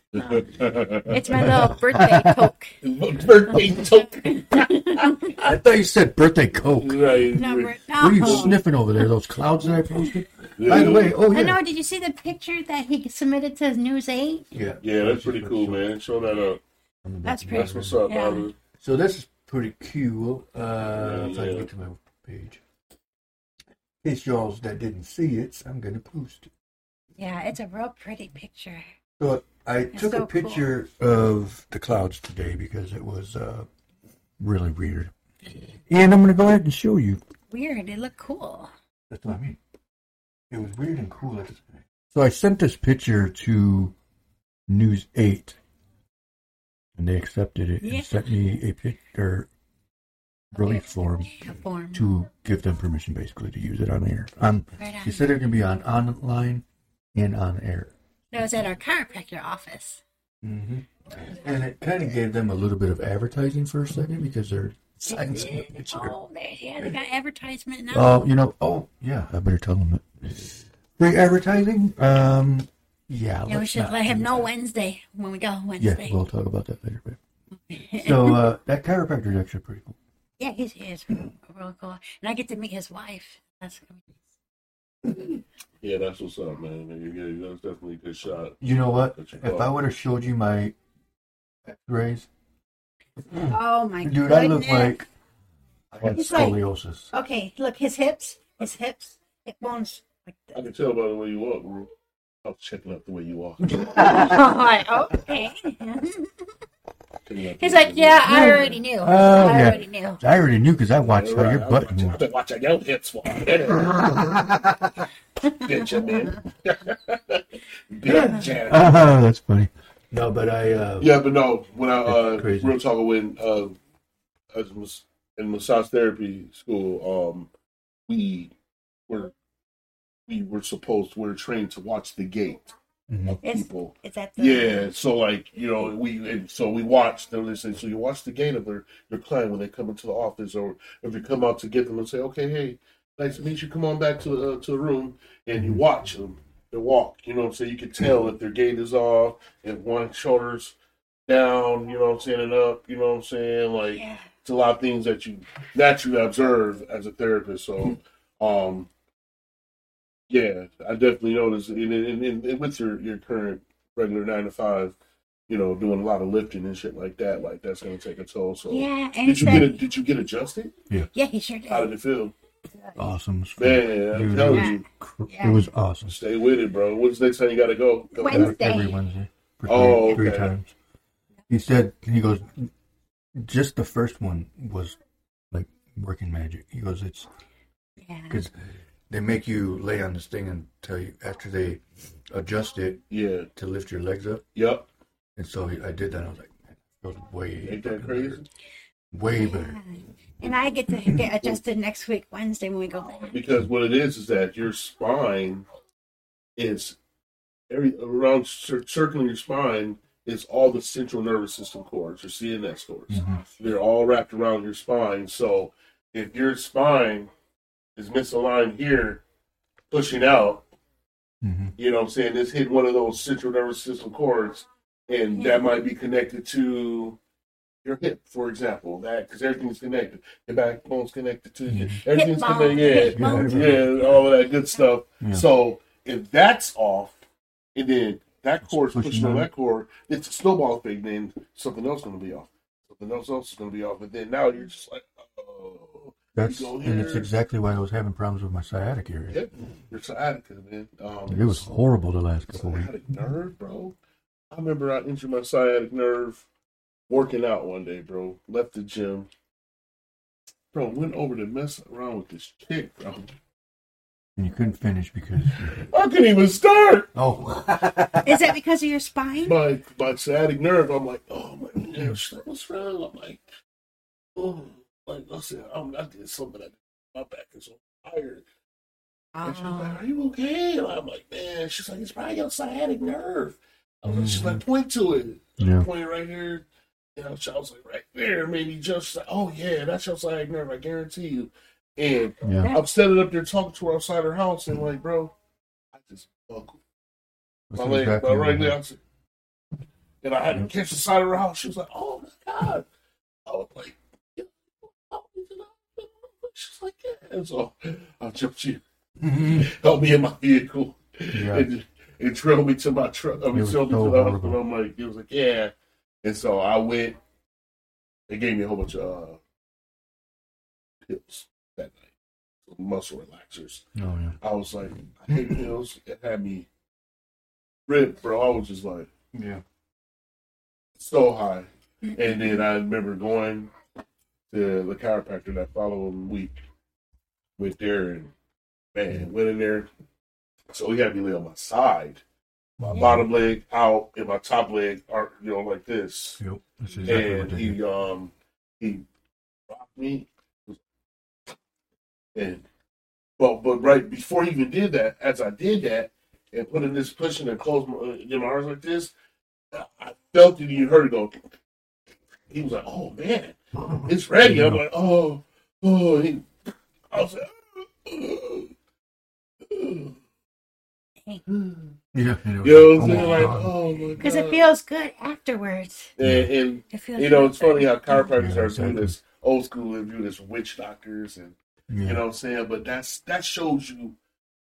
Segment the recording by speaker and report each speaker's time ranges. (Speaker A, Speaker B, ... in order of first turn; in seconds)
Speaker A: 0.1-1.4, 2.8-5.1, 6.7-8.6, 10.6-11.2, 14.8-16.6, 17.5-18.6, 20.9-21.7, 85.8-88.6, 89.1-89.7, 96.0-96.5, 100.5-101.9, 102.4-103.8, 107.2-108.7, 111.1-114.0, 115.5-119.0, 121.0-123.8, 124.5-127.5, 128.1-128.5, 129.1-129.3, 130.3-132.7, 133.3-150.7, 151.3-158.9, 160.3-164.9, 165.5-170.7, 171.7-172.3, 173.6-174.8, 176.1-178.6, 179.7-180.5, 193.1-193.5, 194.5-194.9, 197.6-198.5, 203.3-205.7, 206.6-207.0, 207.7-217.3, 217.9-219.2, 219.9-220.6, 221.8-227.2, 227.8-237.2, 237.7-247.3, 249.3-251.7, 252.5-253.9, 254.5-256.4, 257.1-259.3, 260.7-263.3, 265.7-267.1, 269.4-273.4, 274.4-278.4, 279.4-295.3, 295.9-296.8, 297.7-299.0, 300.2-302.9, 303.4-308.8, 309.4-315.7, 316.2-317.2, 318.3-319.4, 321.1-322.1, 322.6-323.8, 324.4-326.7, 327.9-329.1, 331.0-333.7, 334.5-336.6, 337.6-338.3, 338.9-339.9, 340.7-342.2, 342.8-346.4, 347.0-349.0, 349.7-350.8, 352.3-352.6, 353.4-359.1, 359.7-361.4, 362.5-366.5, 367.1-368.7, 369.6-370.2, 371.5-371.9, 372.6-374.7, 376.2-384.1
Speaker B: 1.1-2.8, 3.5-5.4, 7.3-8.6, 10.7-14.5, 17.2-18.5, 27.2-28.9, 29.9-30.7, 37.5-38.7, 47.8-48.2, 50.5-52.1, 54.8-55.2, 58.3-60.0, 65.1-68.2, 73.5-76.2, 77.7-78.4, 80.4-84.2, 93.4-95.0, 96.1-96.6, 97.1-100.6, 103.9-106.4, 107.6-110.2, 133.4-134.9, 153.9-154.2, 168.7-169.8, 171.1-171.9, 174.4-175.6, 178.1-179.0, 188.0-188.4, 199.3-203.3, 225.4-225.7, 232.1-233.9, 268.2-269.6, 279.3-280.0, 342.9-343.2, 373.0-373.6, 374.2-376.1, 376.9-378.3
Speaker C: 1.1-2.5, 5.3-7.4, 8.0-11.6, 14.5-15.9, 17.0-18.0, 18.8-22.6, 24.0-26.5, 29.2-33.7, 34.4-35.1, 35.9-37.2, 39.1-39.6, 40.5-43.9, 44.7-45.6, 47.0-49.5, 50.5-51.3, 51.9-57.9, 60.4-66.1, 67.9-74.5, 75.8-77.2, 78.0-80.0, 88.6-90.7, 91.7-92.3, 93.3-95.0, 95.9-97.1, 103.7-104.6, 108.2-112.2, 113.5-115.0, 118.0-121.2, 122.0-122.8, 133.1-133.4, 169.4-169.7, 172.9-176.2, 178.2-180.7, 181.5-182.7, 183.3-185.0, 185.5-187.3, 188.3-188.5, 189.1-193.0, 193.5-194.4, 195.3-198.4, 199.1-199.8, 213.1-213.4, 221.4-221.7, 231.7-232.0, 232.9-234.2, 238.7-239.5, 246.3-249.4, 251.3-252.9, 264.4-265.9, 267.1-268.5, 284.0-284.6, 285.6-285.9, 292.4-292.7, 297.7-298.8, 309.2-309.7, 311.3-311.7, 313.5-314.6, 323.9-324.4, 325.3-325.6, 329.3-329.6, 342.8-343.2, 346.4-347.8, 363.8-364.8, 372.1-373.8, 376.2-376.5, 378.3-379.1, 381.9-382.2